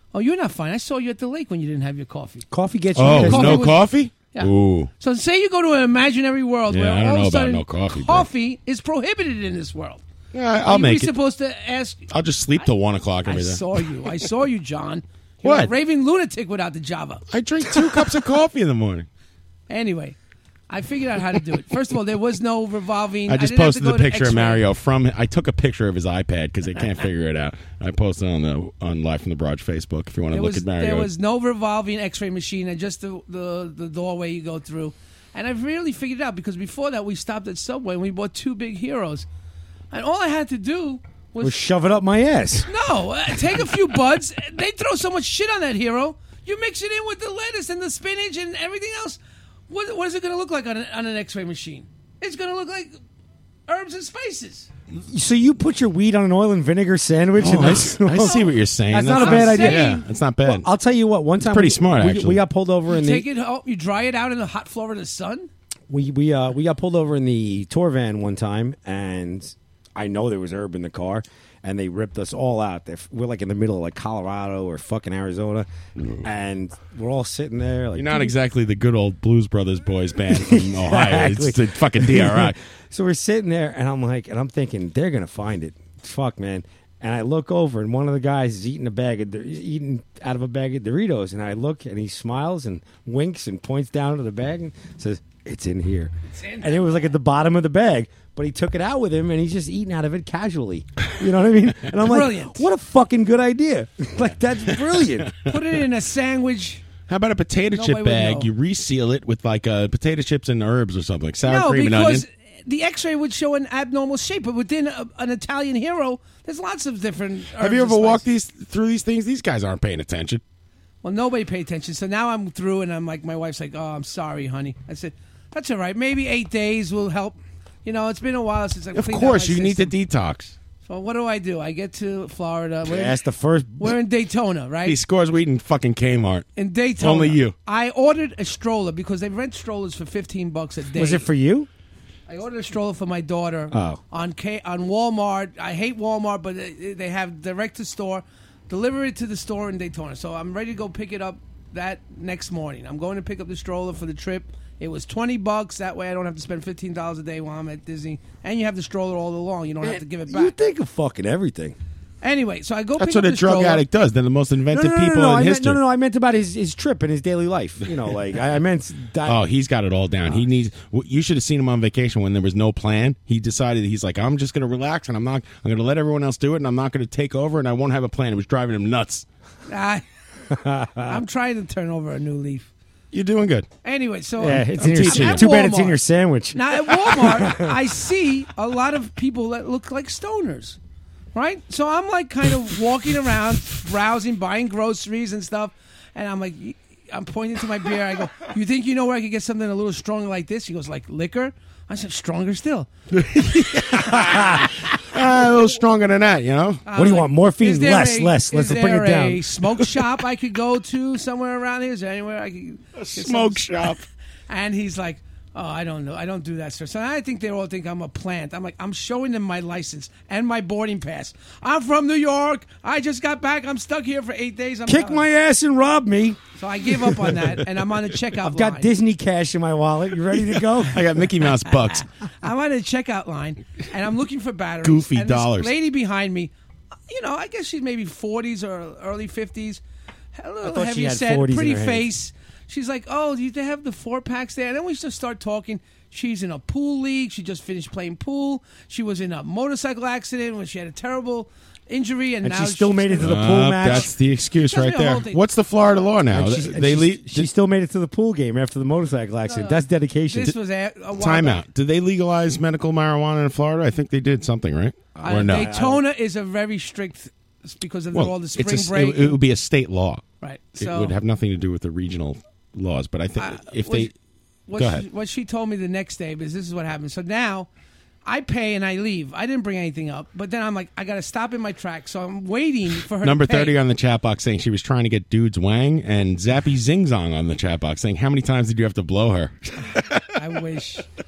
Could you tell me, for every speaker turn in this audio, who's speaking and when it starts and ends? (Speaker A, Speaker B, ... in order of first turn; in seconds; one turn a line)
Speaker A: 0.1-2.5
Speaker B: 2.5-3.7
Speaker C: 3.0-4.9
Speaker A: 3.0-10.0
Speaker C: 6.7-8.3
Speaker C: 10.3-11.1
Speaker A: 10.7-12.1
Speaker C: 12.1-13.7
Speaker A: 13.2-17.2
Speaker C: 15.4-15.7
Speaker C: 17.3-19.1
Speaker A: 19.7-20.1
Speaker A: 20.7-24.6
Speaker C: 23.3-31.1
Speaker A: 30.3-39.2
Speaker A: 39.9-41.6
Speaker B: 41.4-42.7
Speaker A: 42.6-52.9
Speaker A: 53.7-54.7
Speaker B: 55.1-63.2
Speaker C: 57.4-60.7
Speaker A: 58.2-58.5
Speaker A: 59.1-60.0
Speaker C: 61.4-62.4
Speaker A: 62.9-65.5
Speaker B: 65.9-75.7
Speaker B: 76.2-78.3
Speaker C: 77.9-82.6
Speaker B: 80.4-105.3
Speaker A: 96.3-96.9
Speaker A: 102.0-102.6
Speaker A: 105.4-106.8
Speaker C: 107.1-112.2
Speaker A: 107.7-108.5
Speaker A: 111.4-118.2
Speaker C: 117.6-120.4
Speaker A: 121.0-129.9
Speaker C: 128.9-130.5
Speaker A: 130.8-133.2
Speaker B: 132.8-133.9
Speaker A: 133.8-135.0
Speaker C: 134.8-136.4
Speaker A: 136.6-141.2
Speaker C: 137.0-137.5
Speaker B: 140.9-141.7
Speaker A: 142.3-160.5
Speaker B: 143.7-144.0
Speaker B: 159.8-161.8
Speaker A: 162.2-163.8
Speaker C: 163.0-165.8
Speaker B: 164.7-169.4
Speaker C: 169.2-179.2
Speaker A: 179.7-180.0
Speaker B: 180.5-181.1
Speaker A: 181.1-182.7
Speaker C: 183.1-183.7
Speaker A: 183.8-186.0
Speaker B: 184.4-187.7
Speaker C: 184.8-185.5
Speaker A: 186.5-190.8
Speaker A: 191.3-202.9
Speaker C: 203.1-206.9
Speaker B: 204.1-204.6
Speaker A: 206.9-213.7
Speaker B: 206.9-209.4
Speaker C: 212.9-214.0
Speaker A: 214.5-225.2
Speaker B: 224.9-226.4
Speaker A: 226.6-228.9
Speaker B: 228.4-231.0
Speaker C: 230.8-232.0
Speaker A: 232.4-236.5
Speaker C: 234.8-235.7
Speaker A: 237.1-239.8
Speaker A: 240.3-254.0
Speaker B: 240.6-242.1
Speaker B: 252.4-254.1
Speaker C: 253.2-257.5
Speaker A: 254.6-255.4
Speaker B: 256.3-260.5
Speaker A: 259.5-261.6
Speaker C: 261.2-265.7
Speaker B: 265.1-266.0
Speaker A: 265.2-269.4
Speaker C: 268.1-270.2
Speaker A: 270.4-271.1
Speaker C: 270.8-274.1
Speaker A: 273.4-274.1
Speaker A: 274.7-277.7
Speaker C: 274.8-275.1
Speaker A: 278.2-283.8
Speaker C: 283.2-290.2
Speaker A: 290.4-291.1